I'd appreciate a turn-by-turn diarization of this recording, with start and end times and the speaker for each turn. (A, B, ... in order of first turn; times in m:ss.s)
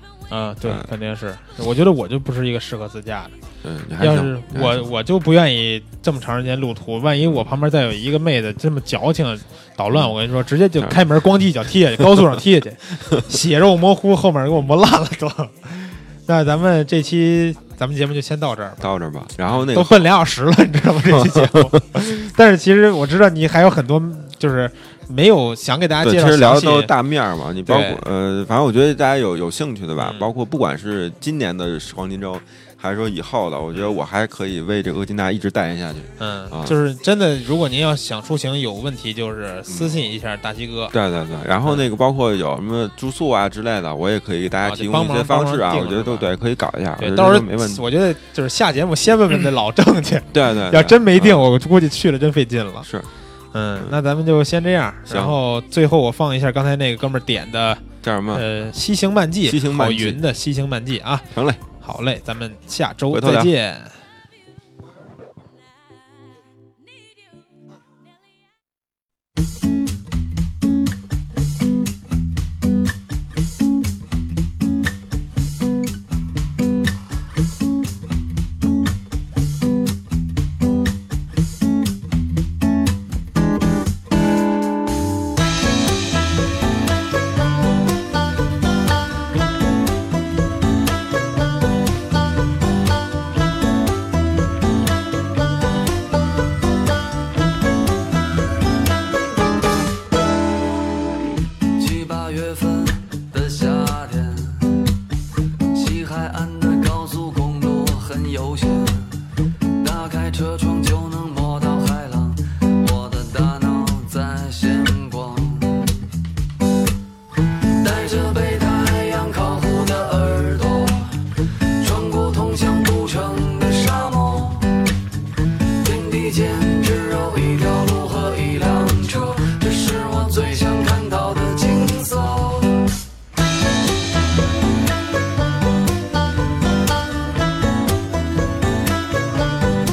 0:00.3-0:03.3 A
0:00.6-0:00.9 B
0:03.6-0:04.9 B
0:04.0-0:18.8 A
0:07.2-0:07.5 B
0:10.8-0:11.1 B
0:12.0-0:12.4 B
0:18.8-0:20.1 B
0:19.5-0:26.9 A
0:21.0-0:22.1 B
0:26.0-0:36.8 B
0:27.6-0:28.0 A
0:30.0-0:30.3 A
0:36.2-0:40.9 A
0:39.7-0:39.9 B
0:40.9-0:47.8 B
0:44.6-0:46.3 A
0:47.0-0:52.9 A
0:50.3-0:51.5 B
0:52.8-0:53.1 B
0:53.5-1:01.3 A
0:55.1-0:55.4 B
0:58.0-0:58.5 B
0:59.4-1:00.2 B
1:01.3-1:01.6 B
1:01.8-1:04.0 A
1:03.1-1:03.5 B
1:41.8-1:44.9 C
1:45.7-1:55.9 C
1:57.8-2:01.2 C
2:01.8-2:04.8 C
2:05.8-2:12.8 C